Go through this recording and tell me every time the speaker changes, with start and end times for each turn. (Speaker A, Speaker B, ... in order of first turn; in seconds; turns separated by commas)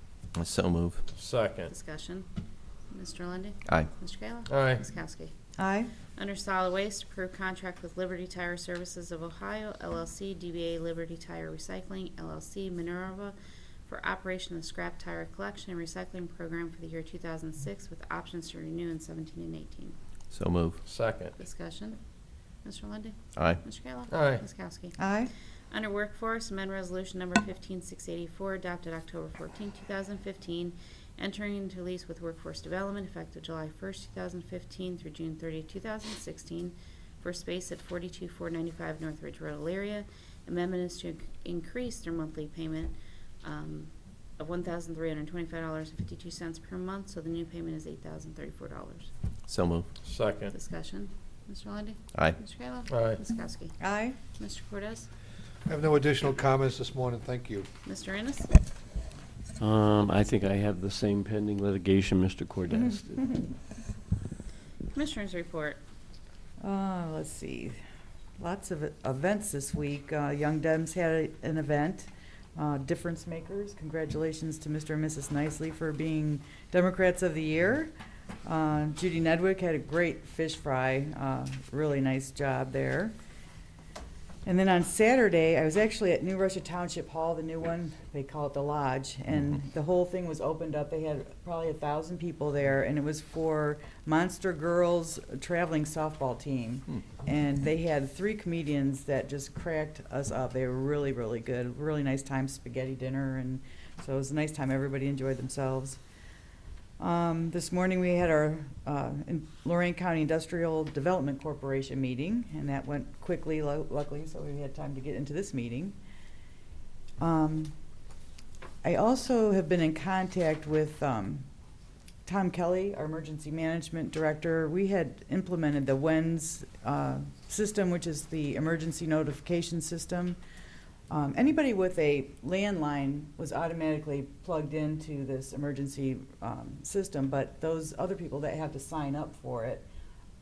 Speaker A: 0.3-1.0, Speaker B: 1.1-1.7, Speaker C: 1.7-2.2, Speaker C: 2.9-5.3, Speaker B: 4.4-4.8, Speaker D: 5.6-5.9, Speaker C: 6.1-13.3, Speaker C: 13.8-20.0, Speaker A: 20.3-20.8, Speaker B: 20.8-21.4, Speaker C: 21.4-22.0, Speaker C: 22.6-25.1, Speaker A: 23.4-23.7, Speaker B: 24.1-24.4, Speaker D: 25.0-25.3, Speaker C: 25.7-49.1, Speaker A: 49.5-49.9, Speaker B: 50.0-50.5, Speaker C: 50.5-55.1, Speaker B: 52.9-53.2, Speaker D: 53.8-54.2, Speaker E: 55.6-57.7, Speaker C: 57.8-58.5, Speaker F: 59.6-63.2, Speaker D: 62.7-63.5, Speaker C: 64.9-65.8, Speaker D: 66.6-67.8, Speaker D: 68.4-77.9, Speaker D: 78.4-83.1, Speaker D: 84.4-106.0, Speaker D: 107.0-116.0, Speaker D: 117.2-117.7, Speaker D: 118.8-121.5, Speaker D: 122.2-130.4, Speaker D: 131.1-139.8